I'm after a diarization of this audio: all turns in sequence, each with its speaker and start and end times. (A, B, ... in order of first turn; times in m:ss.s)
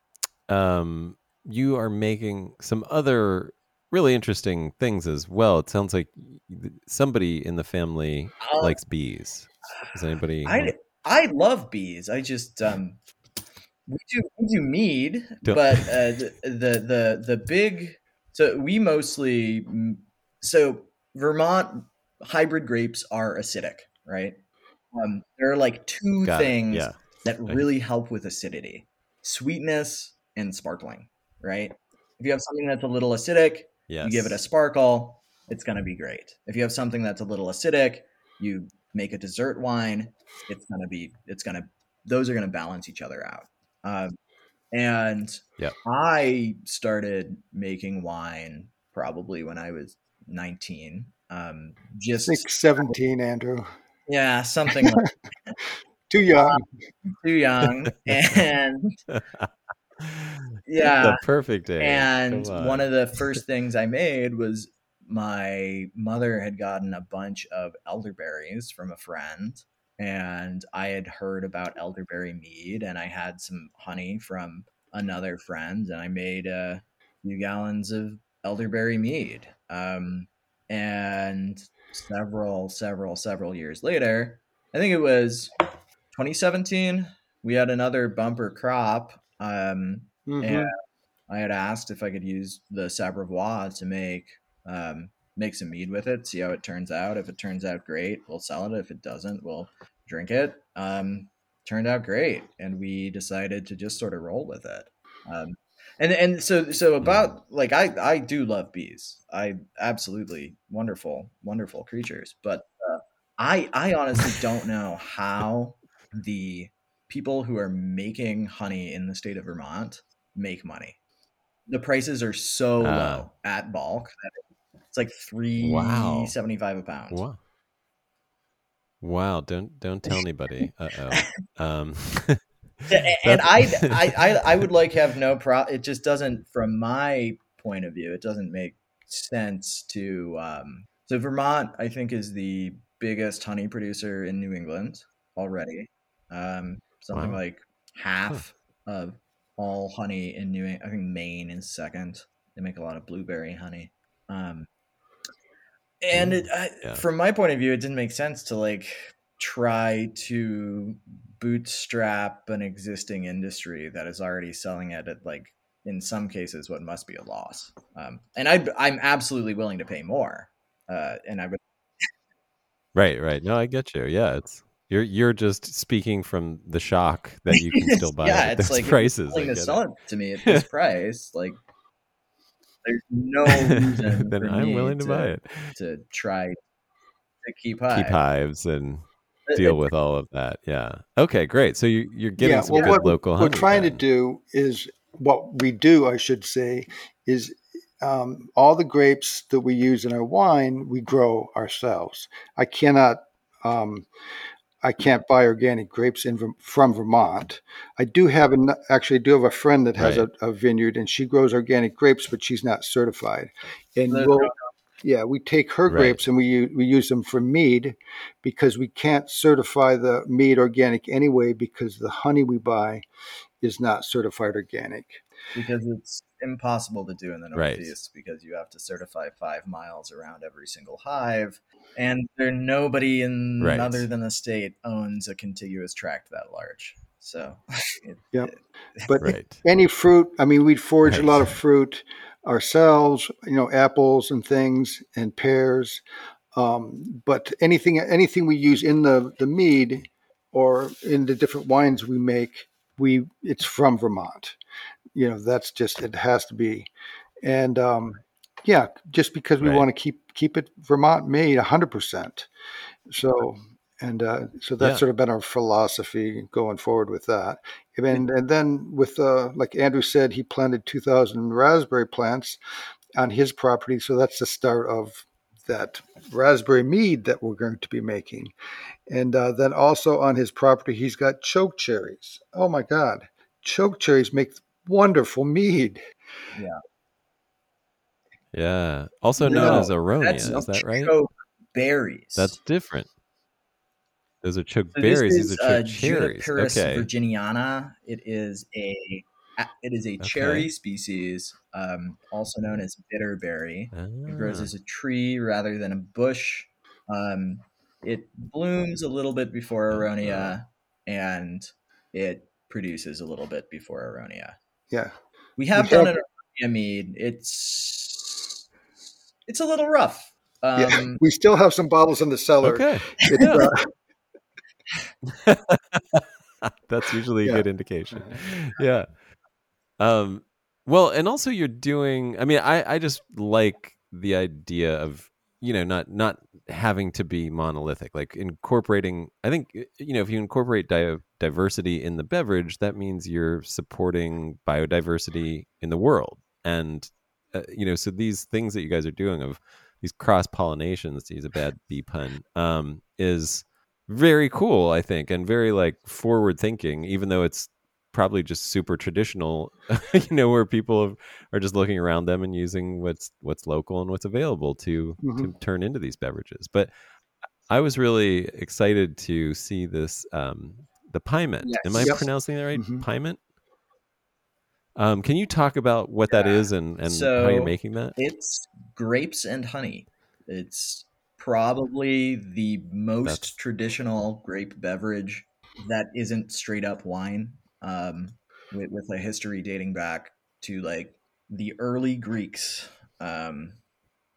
0:00.5-0:10.7 A
0:08.4-0:08.8 B
0:10.4-0:13.0 B
0:13.9-0:24.4 B
0:15.4-0:16.0 A
0:24.9-0:44.2 B
0:26.2-0:27.6 A
0:33.9-0:34.4 A
0:44.7-0:52.9 B
0:52.2-0:53.7 C
0:54.1-0:55.5 B
0:56.1-0:56.7 C
0:56.3-0:56.6 B
0:57.1-0:58.9 B
0:59.1-0:59.5 A
1:00.0-1:02.9 A
1:00.7-1:01.2 B
1:01.8-1:25.5 B
1:26.1-1:30.7 B
1:30.3-1:30.7 C
1:31.3-2:01.0 B
1:47.0-1:47.3 A
2:01.7-2:04.3 B
2:02.8-2:03.3 A
2:04.9-2:07.2 B
2:05.6-2:06.3 A
2:07.1-2:07.4 A
2:09.0-2:13.9 A
2:12.9-2:34.7 B
2:27.1-2:27.4 A
2:36.0-2:51.6 B
2:36.1-2:37.0 A
2:52.9-2:59.8 A
2:57.5-3:01.6 B
3:02.8-3:06.6 B
3:03.5-3:05.7 A
3:07.4-3:08.2 B
3:07.9-3:14.0 A
3:09.5-3:09.9 B
3:12.4-3:24.1 C
3:12.7-3:13.0 B
3:24.8-3:34.5 C
3:30.0-3:30.3 A
3:34.1-3:34.6 B
3:35.0-3:43.0 C
3:35.9-3:36.2 A
3:43.6-3:45.2 C
3:45.5-3:59.1 B
3:47.5-3:47.9 A
3:53.6-3:54.0 A
3:59.1-4:06.0 C
3:59.2-3:59.6 A
4:01.0-4:01.5 A
4:06.5-4:14.6 C
4:15.1-4:16.9 C
4:17.4-4:22.5 C
4:19.6-4:19.8 A
4:23.1-4:32.6 C
4:33.2-4:38.5 C
4:39.1-4:46.0 C
4:48.5-4:51.1 A
4:49.4-4:52.6 B
4:49.5-4:49.9 C
4:52.4-4:53.1 A
4:54.4-4:57.1 A
4:54.9-5:14.6 B
5:00.2-5:00.7 A
5:03.9-5:04.7 A
5:09.9-5:10.6 A
5:15.6-5:18.5 B
5:15.8-5:16.1 C
5:19.5-5:21.2 B
5:20.8-5:23.9 C
5:22.6-5:23.7 A
5:25.3-5:29.1 A
5:27.4-5:28.4 C
5:30.0-6:06.9 A
6:05.2-6:05.5 C
6:07.7-6:13.4 A
6:11.6-6:12.3 B
6:12.7-6:13.0 C
6:15.0-6:18.1 A
6:16.3-6:33.8 B
6:23.2-6:23.5 A